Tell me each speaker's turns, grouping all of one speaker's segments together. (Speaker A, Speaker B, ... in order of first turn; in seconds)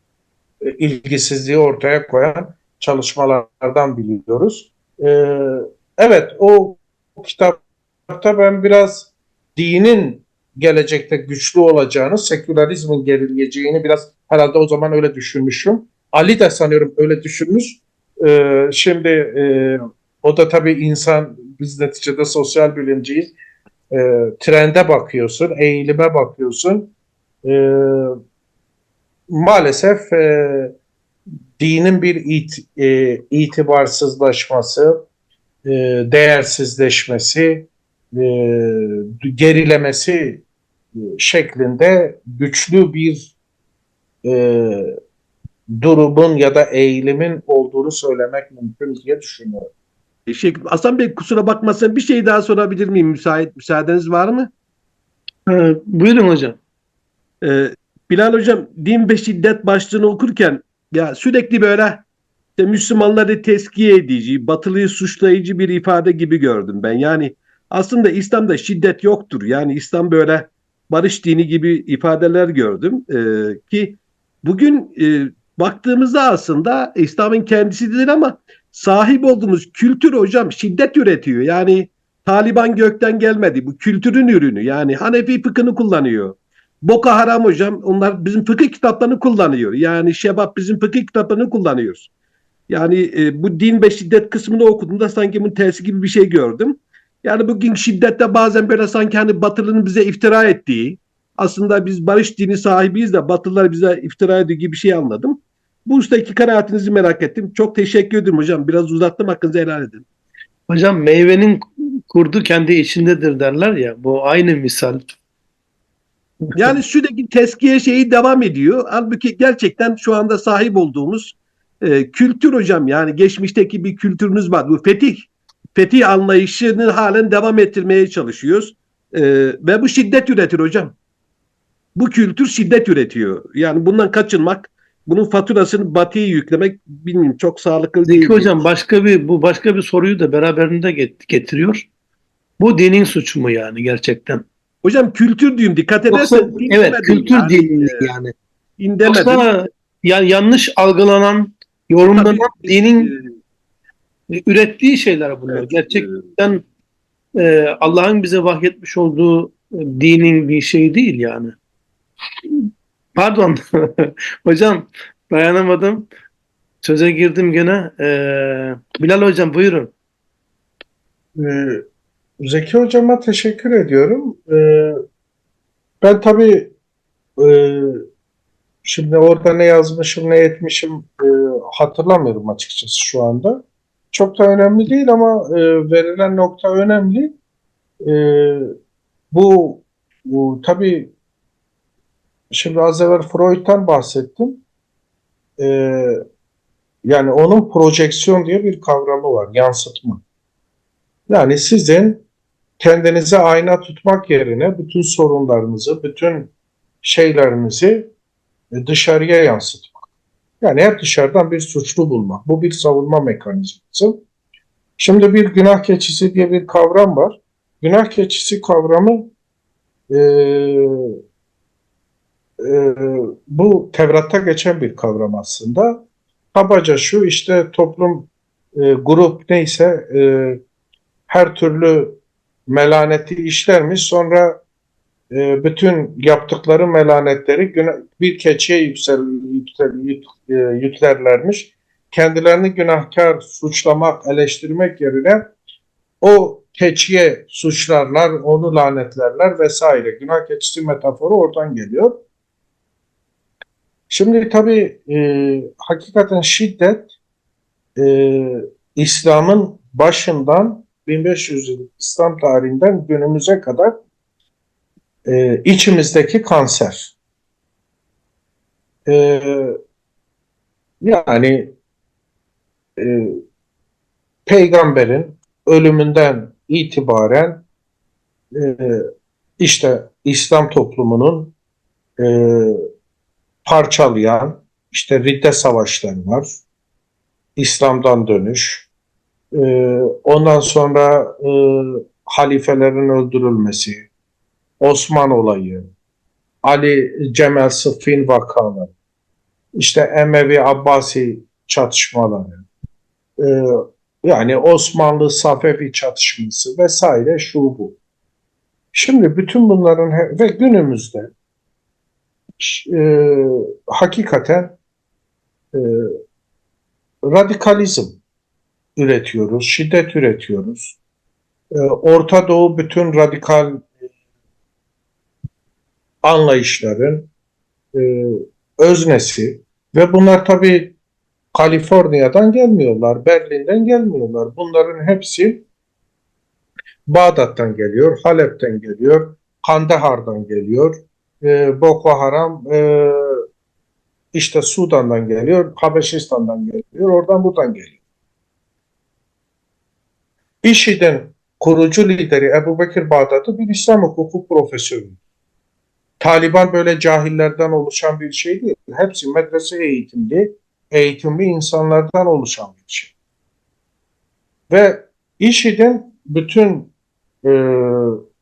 Speaker A: 0.6-23.3, 23.9-26.9, 27.4-28.2, 29.3-30.8, 31.6-35.0, 35.6-40.4, 41.0-43.3, 44.2-45.0, 45.7-49.7, 171.4-171.8, 172.4-175.0, 176.0-176.7, 177.4-178.0, 178.8-187.4, 188.0-188.7, 189.3-191.1, 192.5-194.6, 195.6-196.2, 197.0-200.2, 201.3-202.2, 202.8-208.1, 208.7-210.0, 210.6-214.2, 215.0-219.3, 220.1-221.2, 222.6-230.6, 231.3-234.6, 235.3-245.5, 246.2-252.2, 254.1-257.1, 258.0-263.9, 265.2-267.1, 269.1-269.8, 271.0-271.8, 273.0-273.4, 274.4-277.6, 278.5-281.5, 282.2-282.9, 283.6-286.6, 287.6-288.9, 289.5-294.1, 294.8-295.9, 296.6-298.9, 299.8-302.7, 303.4-308.0, 308.9-311.3, 312.6-314.8, 315.7-316.2, 317.3-318.2, 318.9-321.0, 321.7-323.9, 326.2-327.3, 327.9-330.9, 331.5-335.6, 337.1-343.4, 344.3-348.0, 350.6-355.2, 356.2-363.1, 364.7-366.9, 367.4-368.2
Speaker B: 50.3-54.5, 57.4-62.0, 62.6-92.1, 92.7-110.0, 116.5-130.9, 131.9-138.6, 144.8-148.1, 148.8-149.4, 152.1-153.3, 155.5-156.2
Speaker C: 55.5-56.6, 110.7-115.1, 138.1-141.9, 142.6-144.4, 146.1-148.3, 149.1-153.1, 154.3-156.6, 157.3-161.5, 162.4-166.1, 166.8-169.9